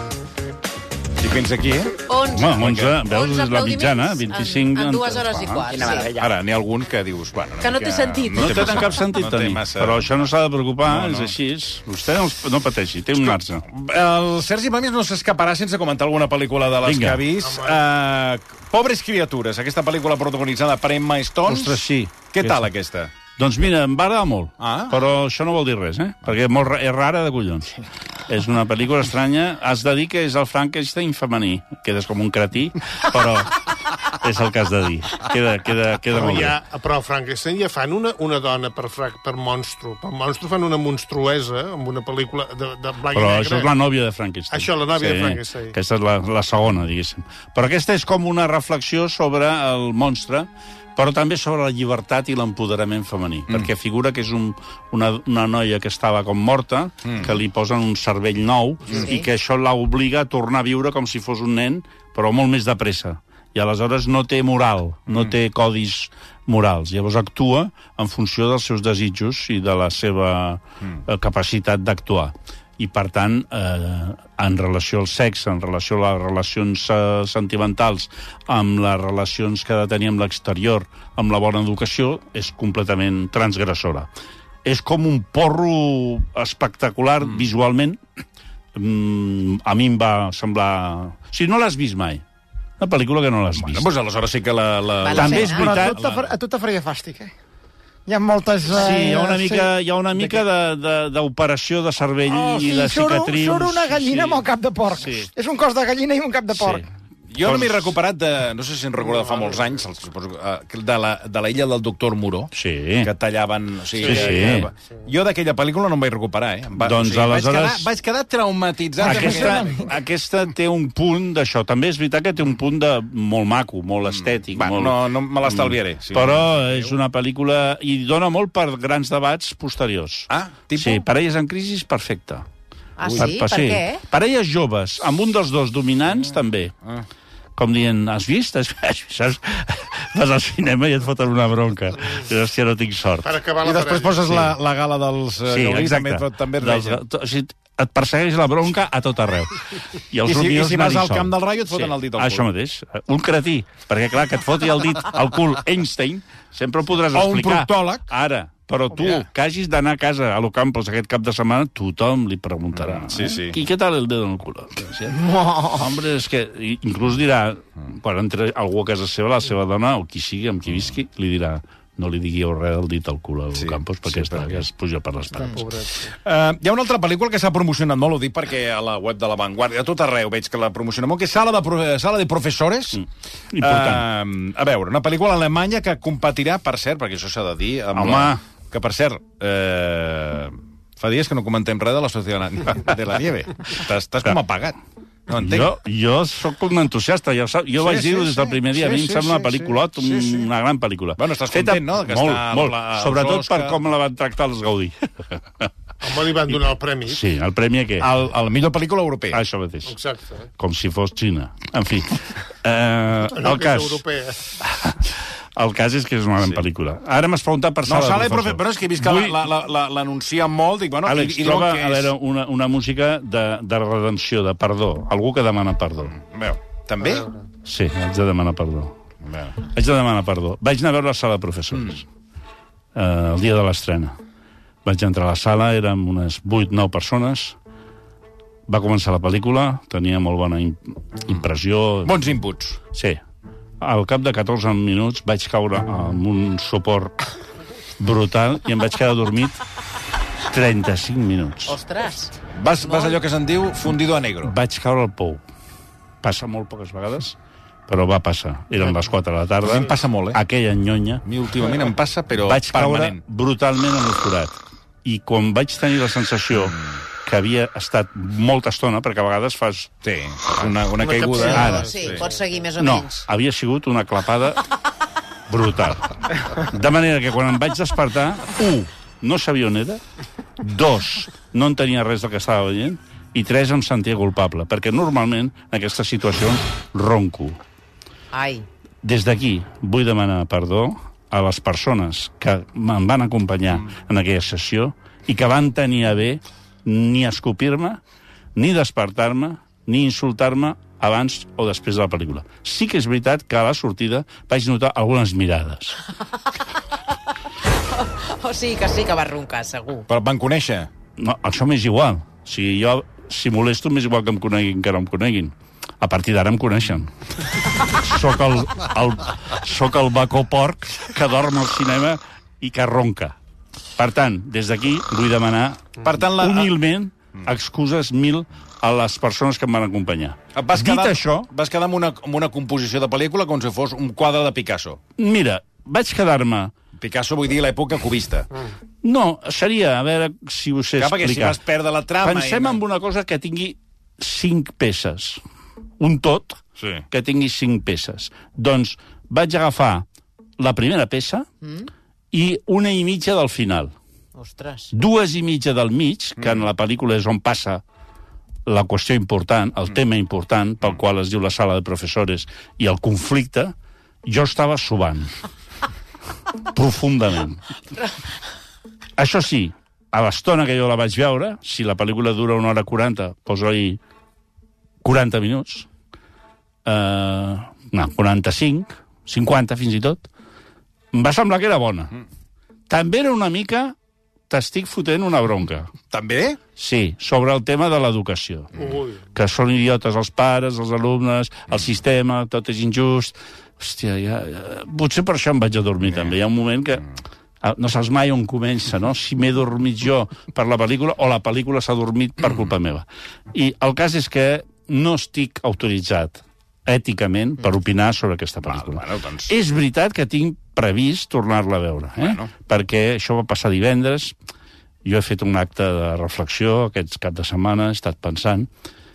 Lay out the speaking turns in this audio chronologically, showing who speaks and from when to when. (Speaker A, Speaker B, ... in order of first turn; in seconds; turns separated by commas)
Speaker A: 1.2-2.0, Speaker B: 2.1-6.1, Speaker C: 2.3-5.7, Speaker A: 2.6-3.0, Speaker A: 6.0-10.1, Speaker B: 7.6-8.8, Speaker C: 8.3-13.6, Speaker A: 10.8-11.3, Speaker A: 13.2-21.8, Speaker C: 16.8-17.3, Speaker D: 17.4-17.8, Speaker C: 21.5-22.7, Speaker A: 22.3-23.1, Speaker C: 23.4-36.6, Speaker A: 24.6-25.0, Speaker D: 36.1-43.7, Speaker C: 43.1-84.1, Speaker D: 44.5-45.8, Speaker A: 57.0-57.3, Speaker B: 58.9-59.3, Speaker A: 65.1-65.3, Speaker C: 84.7-88.0, Speaker C: 88.8-92.2, Speaker C: 92.8-93.9, Speaker A: 93.6-96.3, Speaker B: 95.0-95.7, Speaker C: 95.2-96.0, Speaker E: 95.2-97.3, Speaker E: 98.1-100.4, Speaker C: 98.7-104.5, Speaker E: 102.3-106.8, Speaker C: 105.0-105.3, Speaker C: 106.5-106.8, Speaker A: 107.3-119.9, Speaker C: 107.4-107.9, Speaker D: 109.0-109.7, Speaker C: 112.5-113.1, Speaker D: 114.0-115.0, Speaker C: 114.0-114.7, Speaker C: 116.8-117.9, Speaker C: 119.0-132.5, Speaker E: 119.2-119.7, Speaker A: 124.1-127.0, Speaker A: 130.3-131.1, Speaker B: 133.0-134.0, Speaker C: 133.1-136.8, Speaker C: 137.6-143.3, Speaker D: 143.2-144.5, Speaker A: 143.6-147.0, Speaker C: 145.5-175.7, Speaker A: 150.2-152.5, Speaker A: 157.1-158.1, Speaker A: 162.7-163.6, Speaker E: 165.2-165.8, Speaker A: 173.5-174.7, Speaker D: 175.4-176.1, Speaker A: 176.1-183.0, Speaker C: 182.9-184.1, Speaker A: 183.6-194.8, Speaker C: 187.9-188.4, Speaker A: 195.3-195.7, Speaker C: 195.4-205.7, Speaker A: 197.8-200.5, Speaker A: 201.2-203.8, Speaker D: 206.0-207.2, Speaker C: 206.5-208.1, Speaker A: 208.0-209.4, Speaker C: 209.3-210.0, Speaker D: 209.9-210.5, Speaker C: 210.6-214.0, Speaker D: 213.3-214.5, Speaker C: 214.6-219.4, Speaker A: 216.4-216.7, Speaker A: 217.9-222.1, Speaker C: 221.1-226.2, Speaker A: 226.1-227.3, Speaker D: 227.0-227.3, Speaker C: 227.7-228.9, Speaker A: 229.2-229.6, Speaker C: 229.7-232.1, Speaker A: 231.7-232.0, Speaker C: 232.9-234.2, Speaker C: 234.8-237.6, Speaker C: 238.7-242.2, Speaker A: 242.0-242.8, Speaker C: 242.9-243.2, Speaker C: 243.8-247.2, Speaker C: 248.0-249.6, Speaker C: 250.5-251.8, Speaker B: 251.7-252.3, Speaker A: 252.6-254.6, Speaker B: 252.9-253.2, Speaker C: 254.4-255.4, Speaker C: 256.2-257.4, Speaker C: 257.9-261.2, Speaker A: 259.6-260.4, Speaker A: 261.2-263.2, Speaker C: 262.4-269.9, Speaker A: 266.5-267.0, Speaker A: 270.0-272.2, Speaker D: 271.0-272.4, Speaker B: 271.3-273.2, Speaker C: 271.5-271.9, Speaker C: 272.8-274.6, Speaker C: 275.5-280.0, Speaker C: 280.6-287.6, Speaker B: 288.3-288.7, Speaker C: 289.0-298.0, Speaker C: 298.6-306.0, Speaker B: 307.8-310.1, Speaker A: 310.1-310.9, Speaker C: 311.2-317.1, Speaker C: 317.6-323.4, Speaker C: 324.0-331.3, Speaker A: 326.0-326.8, Speaker A: 330.5-335.0, Speaker C: 335.2-336.7, Speaker A: 337.0-338.5, Speaker C: 339.0-341.6, Speaker A: 341.0-342.8, Speaker C: 342.2-345.4, Speaker C: 346.0-350.1, Speaker A: 346.8-347.1, Speaker C: 350.6-351.5, Speaker B: 351.6-351.9, Speaker C: 352.3-353.9, Speaker B: 354.4-354.9, Speaker C: 354.9-357.8, Speaker A: 356.4-356.7, Speaker C: 358.7-363.7, Speaker C: 364.2-365.3, Speaker C: 366.7-367.7, Speaker C: 369.2-374.0, Speaker C: 375.0-375.9, Speaker C: 376.9-380.2, Speaker C: 381.1-382.2, Speaker C: 382.9-383.9, Speaker C: 384.5-385.9, Speaker A: 386.1-386.6, Speaker C: 386.8-388.8, Speaker D: 388.8-389.2, Speaker C: 389.4-397.1, Speaker C: 397.6-414.4, Speaker A: 408.7-409.5, Speaker A: 412.2-412.5, Speaker C: 415.1-418.7